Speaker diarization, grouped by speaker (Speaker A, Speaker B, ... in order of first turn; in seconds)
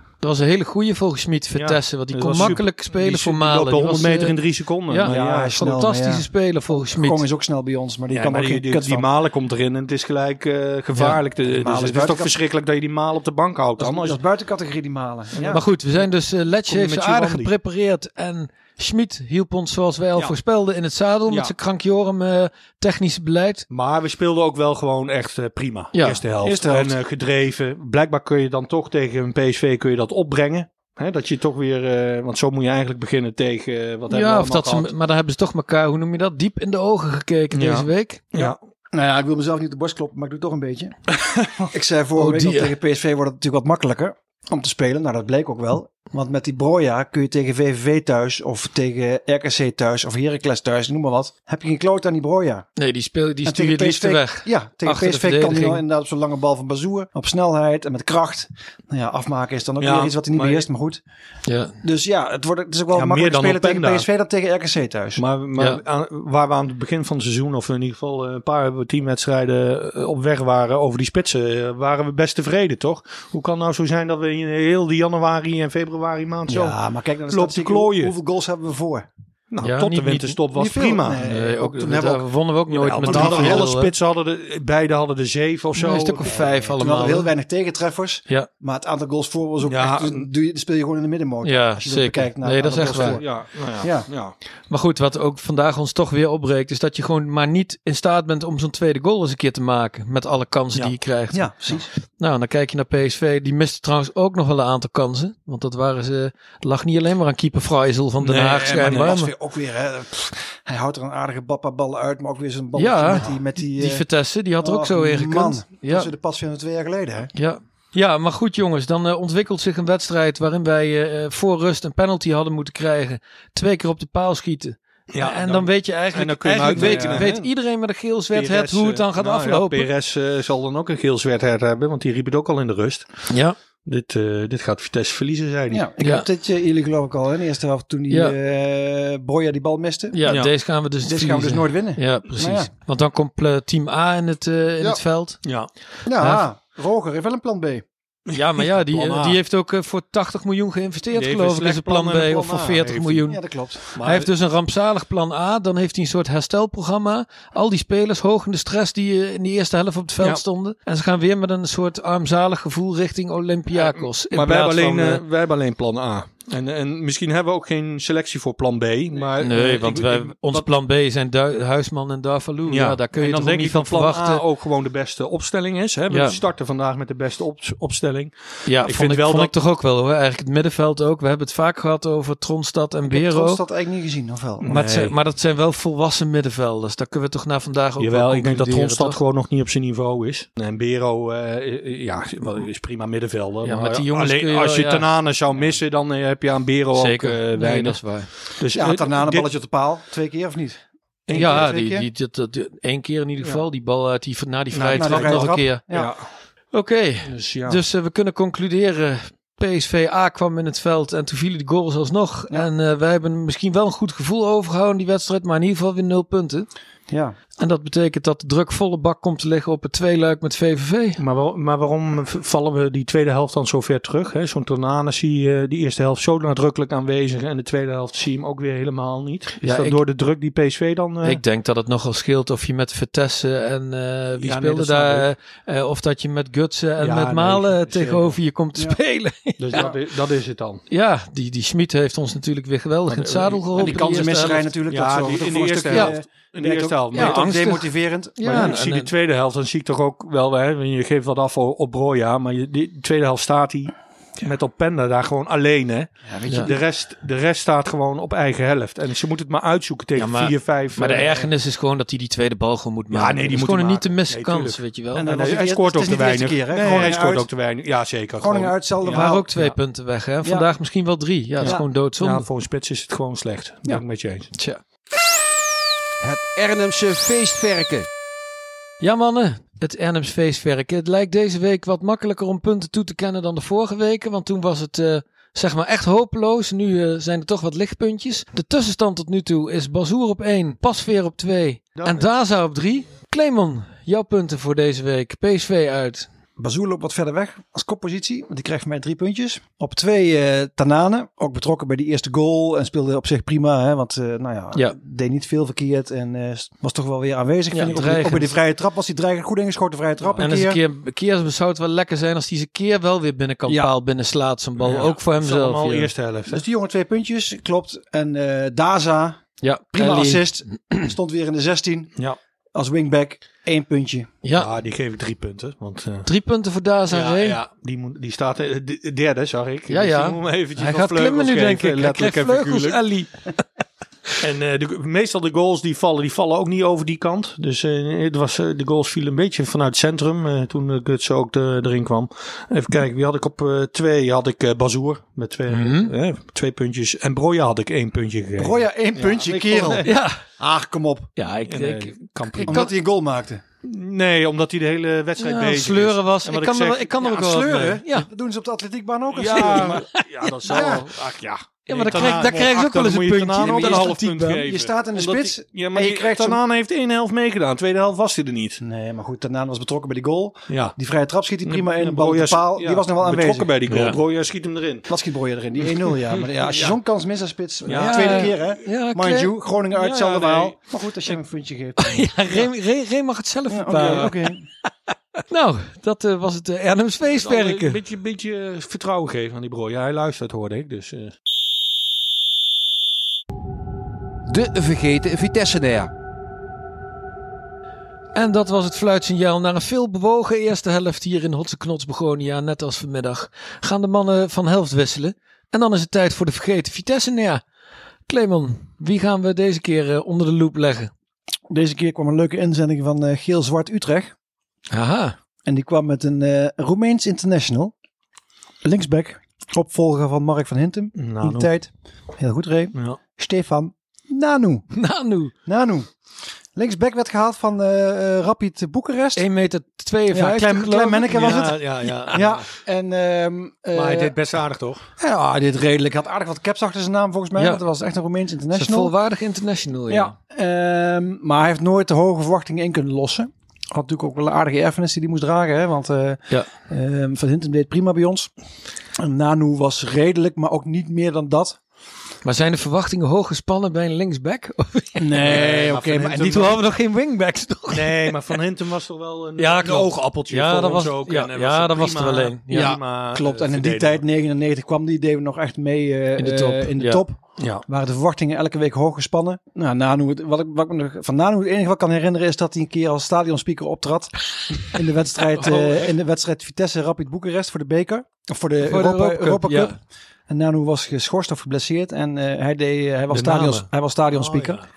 Speaker A: 0.2-4.4, 4.9-7.2, 10.9-11.2, 15.5-23.6, 25.9-26.2, 34.1-38.2, 42.2-42.7, 52.8-55.8, 61.5-61.8, 65.6-65.8, 79.6-80.4, 81.1-83.9, 85.8-87.3, 91.4-93.2, 94.7-109.3, 112.8-116.1, 117.3-129.9, 133.3-133.6, 136.0-136.2, 138.1-138.3, 140.1-145.5, 146.2-146.4, 148.3-153.4, 153.9-165.2, 169.4-174.4, 176.1-176.4, 178.7-183.6, 184.7-189.2, 193.6-195.7, 196.9-198.3, 201.3-205.8, 206.7-216.7, 217.6-221.2, 229.6-230.0, 231.2-239.9, 240.9-244.7, 247.1-249.1, 260.1-265.3, 269.1-272.4, 274.5-274.8, 279.0-296.3, 307.7-308.5, 310.4-316.1, 319.6-321.0, 324.4-324.7, 326.2-327.6, 329.9-333.4, 345.7-346.1, 350.0-350.4, 351.4-352.9, 355.4-358.3, 359.5-361.0, 361.9-364.6, 373.9-374.2, 377.9-379.5, 382.0-384.4, 385.5-388.0, 398.3-407.6, 408.3-411.1, 414.9-415.3, 424.9-425.5, 429.4-431.6, 437.6-437.8, 438.7-440.3, 452.4-455.6, 456.3-458.6, 459.6-462.9, 466.4-467.2, 478.8-479.9
Speaker B: 1.6-5.5, 8.1-14.2, 15.3-15.7, 16.7-17.5, 21.3-21.5, 23.7-34.9, 37.5-38.6, 59.8-60.6, 62.9-64.1, 65.2-78.1, 79.5-81.3, 82.7-86.7, 89.6-90.3, 92.7-94.3, 108.2-109.2, 125.1-127.5, 128.3-133.2, 133.8-135.8, 140.2-140.5, 144.8-145.7, 148.2-149.4, 151.1-153.2, 153.9-154.3, 163.7-170.7, 172.7-179.5, 184.6-185.2, 188.0-199.5, 201.3-201.7, 204.7-206.3, 207.2-207.8, 221.2-231.4, 234.4-235.3, 237.0-238.4, 239.6-240.8, 243.1-247.5, 248.4-261.5, 263.1-269.7, 271.6-274.5, 291.9-292.3, 314.8-316.6, 324.5-326.3, 327.1-333.0, 334.4-350.1, 351.7-352.9, 353.8-357.1, 359.3-368.8, 370.7-370.9, 371.6-375.1, 376.3-376.9, 377.9-378.6, 379.9-380.8, 383.9-384.3, 387.2-391.3, 421.1-421.7, 431.3-432.6, 433.9-435.1, 455.4-456.7, 457.9-464.2, 467.6-467.8, 475.6-476.0, 483.3-484.8
Speaker C: 5.0-9.1, 11.4-12.3, 13.8-15.6, 26.4-27.0, 38.3-41.0, 41.7-52.7, 53.4-61.0, 61.8-65.2, 76.5-79.1, 80.5-82.2, 83.0-83.7, 86.8-94.1, 101.3-101.9, 108.5-114.0, 114.6-117.3, 126.7-127.2, 135.7-140.2, 141.0-142.7, 146.0-147.8, 153.2-153.8, 183.1-184.7, 198.7-202.1, 204.9-206.1, 217.1-217.3, 243.7-248.8, 256.3-256.8, 265.1-267.5, 268.4-269.5, 270.4-270.7, 296.6-310.8, 313.7-313.9, 316.5-319.4, 319.9-322.1, 322.7-324.3, 348.6-350.1, 350.6-351.3, 352.6-353.6, 357.2-360.1, 360.6-361.1, 362.1-362.6, 363.6-366.6, 368.8-373.7, 375.1-382.7, 383.7-384.7, 411.7-414.3, 415.6-417.9, 418.8-424.9, 425.6-426.1, 426.7-429.5, 430.3-434.3, 435.2-439.1, 440.1-448.5, 449.1-451.8, 455.2-456.8, 462.7-484.8
Speaker D: 276.2-278.1, 394.5-396.1